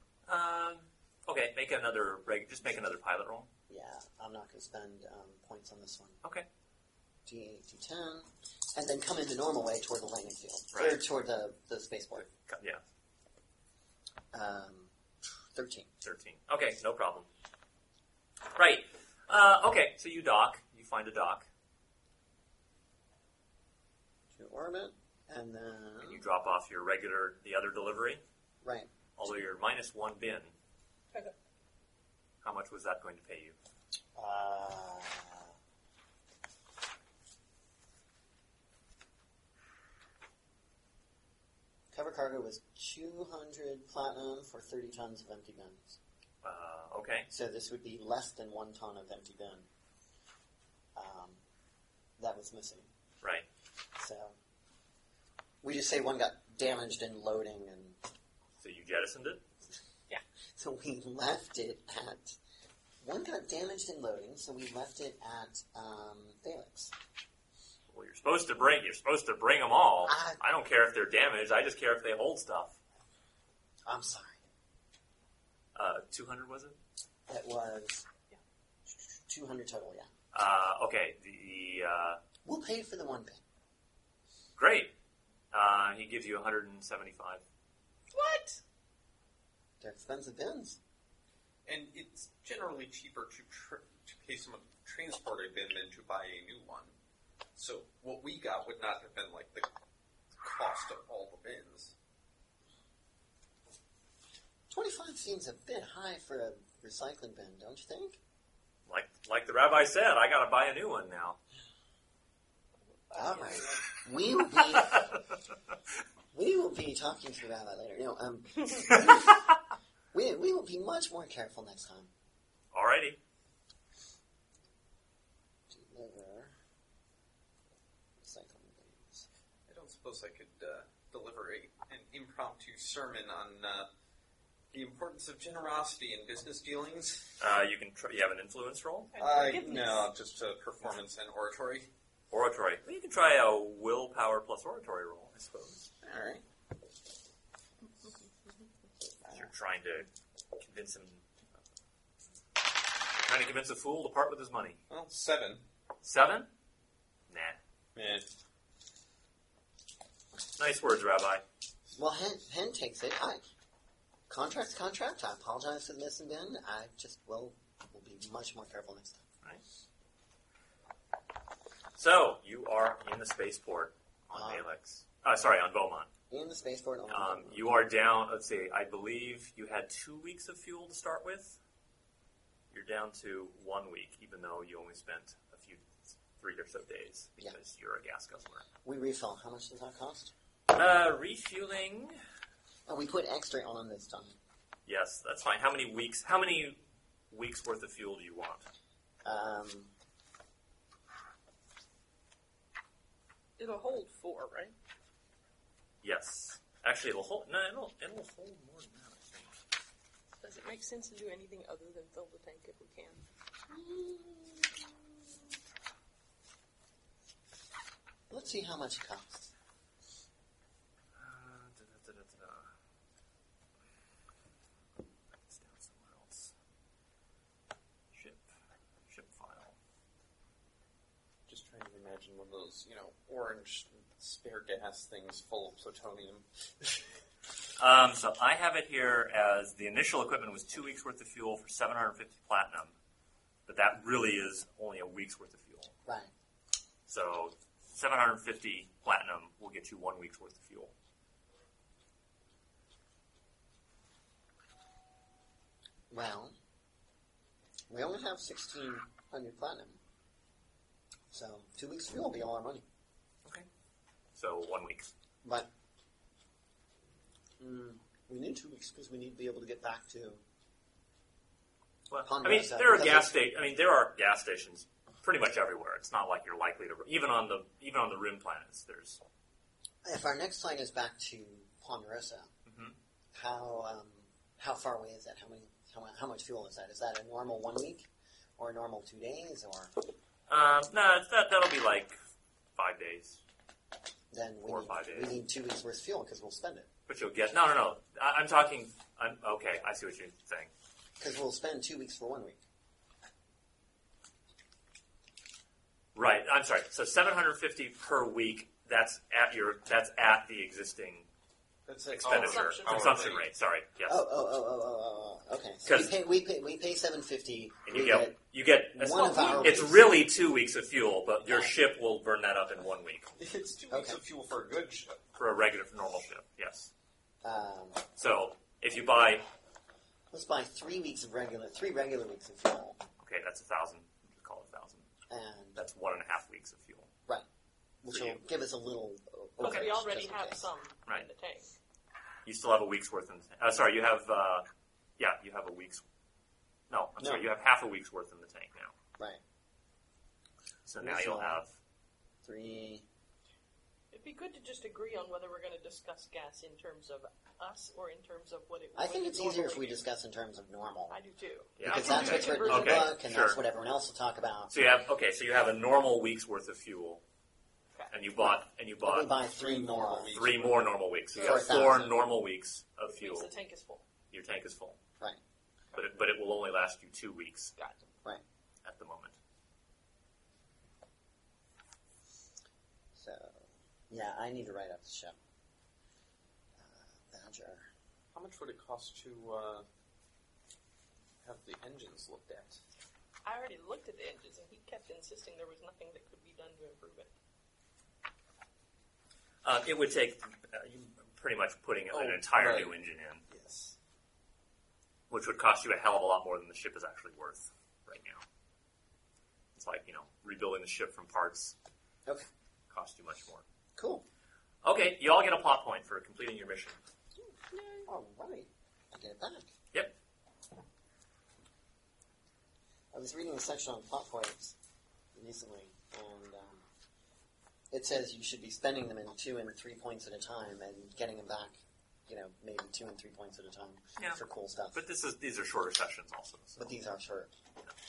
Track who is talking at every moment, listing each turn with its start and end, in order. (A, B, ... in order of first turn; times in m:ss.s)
0:00.3-0:03.5 A
0:03.7-0:06.2 B
0:07.2-0:12.3 B
0:10.7-0:11.0 A
0:12.5-0:12.8 A
0:14.3-0:14.9 B
0:15.5-0:15.9 B
0:16.0-0:17.3 A
0:18.6-0:21.4 A
0:24.3-0:26.2 B
0:26.0-0:28.2 A
0:28.6-0:28.9 B
0:29.2-0:30.5 A
0:32.4-0:33.5 A
0:34.1-0:35.5 B
0:41.9-0:46.0 B
0:46.4-0:47.3 A
0:47.3-0:49.7 B
0:50.9-0:51.4 B
0:52.2-0:52.9 B
0:54.0-0:54.4 B
0:55.6-0:58.0 B
0:58.6-0:59.4 A
1:00.6-1:02.4 B
1:03.0-1:06.9 B
1:07.9-1:12.8 A
1:10.0-1:10.4 B
1:13.9-1:14.4 B
1:15.7-1:16.8 A
1:17.3-1:18.0 B
1:18.9-1:20.1 B
1:20.3-1:22.2 A
1:22.4-1:23.4 B
1:24.6-1:24.9 A
1:25.5-1:27.4 A
1:28.1-1:28.6 C
1:29.8-1:30.8 B
1:31.6-1:36.9 D
1:37.6-1:39.7 D
1:40.4-1:41.9 D
1:44.7-1:48.2 B
1:48.9-1:51.4 A
1:53.1-1:53.8 C
1:53.1-1:55.1 B
1:54.8-1:55.1 A
1:56.3-1:59.4 B
2:00.1-2:02.1 B
2:02.7-2:03.2 A
2:05.7-2:06.5 B
2:08.2-2:09.3 B
2:09.7-2:13.9 D
2:14.7-2:17.3 D
2:17.4-2:19.1 A
2:19.1-2:20.1 C
2:19.2-2:21.9 D
2:22.3-2:25.9 A
2:26.0-2:26.4 D
2:29.3-2:31.2 A
2:33.2-2:34.8 A
2:34.9-2:35.6 D
2:36.0-2:36.5 A
2:37.3-2:37.6 A
2:38.0-2:38.3 D
2:40.6-2:41.4 A
2:41.9-2:43.4 B
2:44.3-2:49.2 B
2:52.0-2:56.1 A
2:54.3-2:54.7 B
2:56.3-2:57.7 B
2:57.1-3:01.6 A
3:02.7-3:08.6 A
3:08.8-3:10.3 B
3:10.7-3:12.2 A
3:12.9-3:14.4 B
3:14.8-3:18.6 A
3:19.2-3:19.9 B
3:23.6-3:24.7 C
3:26.0-3:29.6 A
3:30.4-3:33.2 C
3:33.7-3:34.9 B
3:38.3-3:39.5 B
3:41.2-3:42.7 A
3:45.5-3:46.5 A
3:48.1-3:48.4 A
3:49.1-3:49.7 A
3:51.5-3:57.0 D
3:57.8-4:02.9 A
4:03.7-4:05.9 A
4:06.0-4:06.3 B
4:07.1-4:10.9 A
4:16.1-4:16.5 B
4:17.9-4:20.0 B
4:21.3-4:22.8 B
4:24.3-4:25.1 A
4:25.4-4:25.7 B
4:27.6-4:30.4 B
4:32.1-4:39.2 A
4:32.2-4:33.3 B
4:40.0-4:42.5 B
4:42.6-4:43.0 A
4:43.3-4:49.9 B
4:50.5-4:52.2 A
4:52.8-4:53.4 A
4:54.3-4:56.9 B
4:54.6-4:55.3 A
4:57.1-5:00.7 A
5:01.2-5:02.6 B
5:06.1-5:11.3 A
5:11.9-5:13.4 D
5:12.2-5:14.2 A
5:12.2-5:13.4 C
5:14.1-5:18.4 B
5:15.8-5:16.1 A
5:17.8-5:23.3 A
5:18.9-5:20.2 B
5:19.2-5:20.0 C
5:21.4-5:21.7 B
5:23.4-5:25.2 D
5:23.9-5:24.2 B
5:25.4-5:26.9 A
5:27.4-5:28.0 B
5:28.2-5:29.4 A
5:30.3-5:33.0 B
5:33.2-5:35.0 A
5:35.3-5:35.8 B
5:35.7-5:37.1 A
5:38.0-5:40.7 B
5:38.1-5:38.4 A
5:39.6-5:41.7 C
5:39.6-5:39.9 A
5:42.4-5:44.6 A
5:45.2-5:46.0 A
5:46.9-5:48.9 A
5:47.2-5:47.5 B
5:50.8-5:51.8 A
5:51.0-5:51.6 B
5:52.4-5:53.0 B
5:54.1-6:00.0 C
5:58.9-6:01.2 B
6:01.1-6:03.2 C
6:01.8-6:04.7 B
6:01.8-6:03.6 A
6:04.7-6:07.2 A
6:08.1-6:09.4 A
6:08.4-6:10.4 B
6:09.5-6:10.9 D
6:10.3-6:13.5 A
6:11.3-6:11.7 C
6:11.4-6:12.3 B
6:13.1-6:14.0 C
6:14.3-6:15.0 A
6:15.9-6:17.7 A
6:17.8-6:18.0 C
6:18.8-6:19.4 A
6:23.1-6:25.4 B
6:26.8-6:27.9 B
6:28.3-6:29.8 D
6:31.4-6:32.8 D
6:33.4-6:37.3 C
6:39.6-6:43.4 A
6:42.1-6:42.9 D
6:43.6-6:43.9 D
6:45.3-6:48.4 A
6:49.7-6:51.7 A
6:52.9-6:53.6 A
6:54.0-6:54.2 B
6:54.8-6:57.0 A
6:57.7-6:58.0 C
6:58.0-6:59.7 B
7:03.1-7:04.7 B
7:05.3-7:06.8 B
7:07.9-7:15.0 B
7:14.9-7:16.9 A
7:16.8-7:17.5 B